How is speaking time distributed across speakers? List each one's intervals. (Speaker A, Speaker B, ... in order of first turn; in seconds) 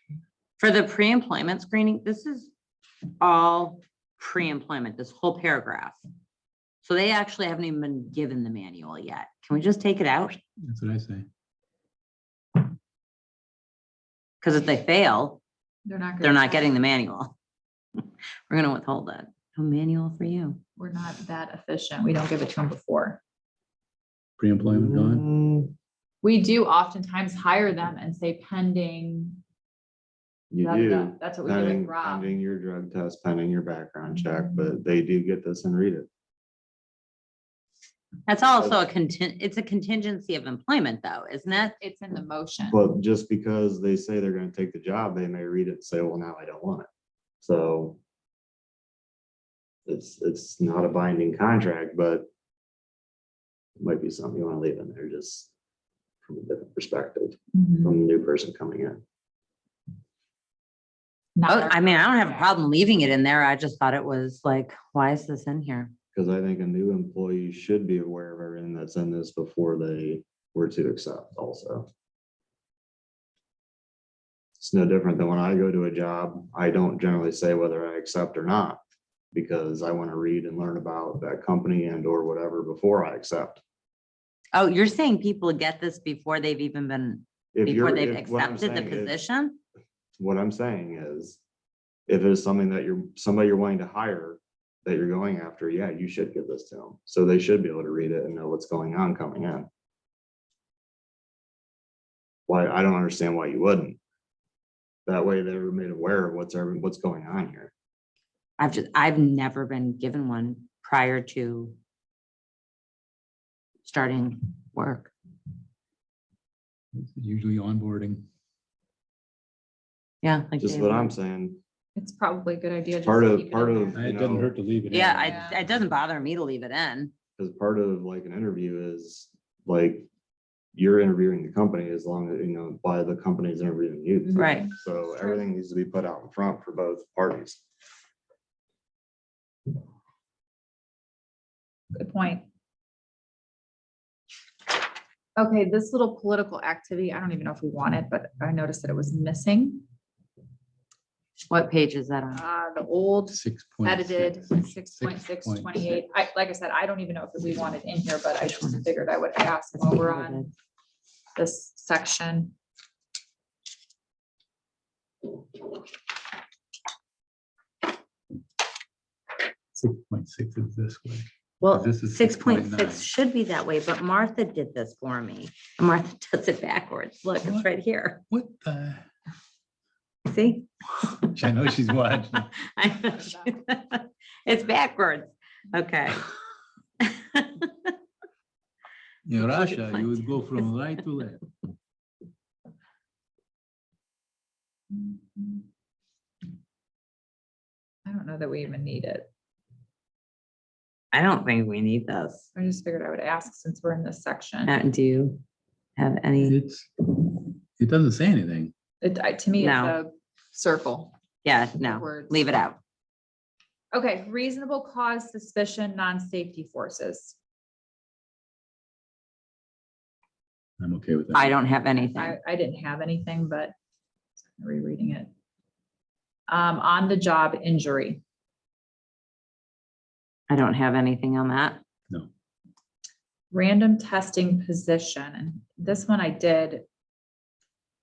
Speaker A: 0.6-2.5, 3.2-6.0, 6.8-10.4, 14.4-15.4, 16.2-17.4, 18.5-20.6, 38.3-41.8, 61.5-65.9, 84.5-89.6, 108.6-111.8, 113.8-115.1, 120.2-121.1, 124.9-127.1, 134.3-134.7, 151.5-152.4, 159.8-160.5, 171.6-178.2, 180.3-181.3, 182.3-186.3, 187.0-187.9, 189.4-190.3, 201.1-202.5, 204.7-205.4, 206.0-206.6, 209.6-210.0, 211.4-212.8, 221.3-222.4, 230.5-231.8
Speaker B: 10.6-11.3, 24.4-25.3, 116.9-118.3, 123.9-125.7, 153.3-155.8, 169.7-173.1, 178.3-179.1, 181.2-182.5, 189.2-191.5, 206.4-206.9, 207.8-208.7, 220.8-221.6
Speaker C: 15.9-16.7, 20.8-23.2, 26.2-29.4, 30.6-32.3, 41.8-42.8, 57.5-58.0, 61.4-62.5, 122.0-124.0, 125.0-125.6, 134.3-134.7, 141.9-142.5, 145.4-149.8, 152.3-160.5, 161.4-162.5, 194.9-195.6, 198.1-199.3, 202.6-204.7, 209.0-211.1, 211.8-212.4, 213.9-217.4, 222.0-223.8, 224.6-225.3, 226.5-228.2, 233.5-236.9
Speaker D: 24.7-25.7, 30.5-36.1, 38.6-38.9, 42.7-46.9, 47.4-48.0, 49.9-52.3, 53.8-55.5, 56.2-59.0, 66.1-71.9, 74.6-78.8, 79.3-83.6, 87.5-89.2, 90.2-91.4, 92.1-99.7, 102.5-104.0, 105.1-107.7, 120.6-121.6, 123.0-124.5, 127.4-130.1, 130.7-137.6